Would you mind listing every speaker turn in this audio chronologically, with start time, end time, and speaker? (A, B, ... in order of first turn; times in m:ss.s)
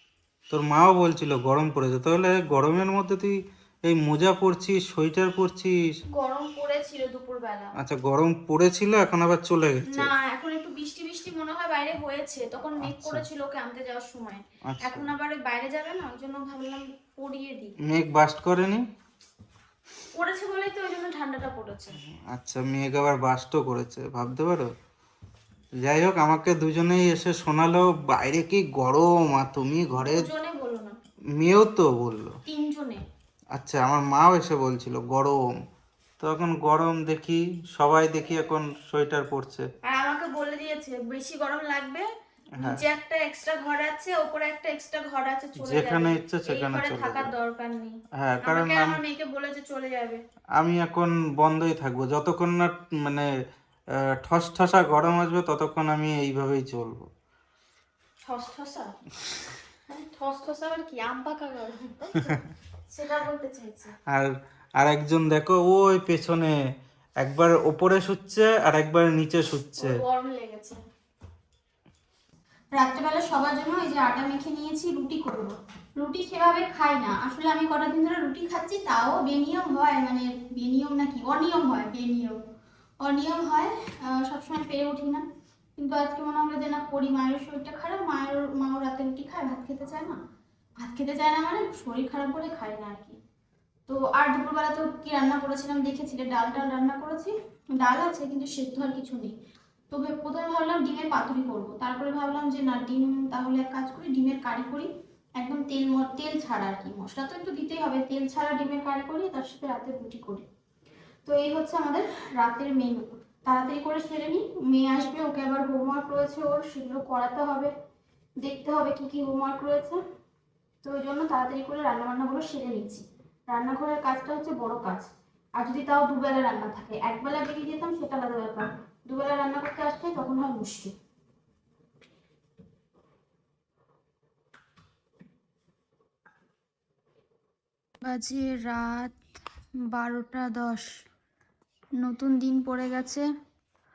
0:00.5-0:06.0 A
0:06.1-0:07.7 B
0:07.8-0:10.1 A
0:09.9-0:17.7 B
0:12.8-0:13.2 A
0:14.7-0:15.1 A
0:17.9-0:18.8 A
0:20.1-0:22.0 B
0:22.3-0:24.7 A
0:25.8-0:30.3 A
0:30.0-0:31.0 B
0:31.4-0:32.3 A
0:32.4-0:33.0 B
0:33.5-0:35.4 A
0:36.2-0:39.6 A
0:39.8-0:50.2 B
0:42.6-0:42.8 A
0:45.6-0:47.3 A
0:48.2-0:49.0 A
0:50.6-0:53.3 A
0:54.1-0:57.1 A
0:58.2-0:59.0 B
0:59.9-1:03.9 B
1:04.1-1:06.5 A
1:07.2-1:09.9 A
1:09.8-1:10.8 B
1:12.7-1:22.4 B
1:23.0-1:25.2 B
1:25.8-1:30.2 B
1:30.8-1:33.2 B
1:33.9-1:39.3 B
1:39.9-1:50.4 B
1:51.2-1:57.7 B
1:58.4-2:00.0 B
2:00.8-2:10.9 B
2:18.0-2:19.2 B
2:19.9-2:20.9 B
2:22.0-2:23.3 B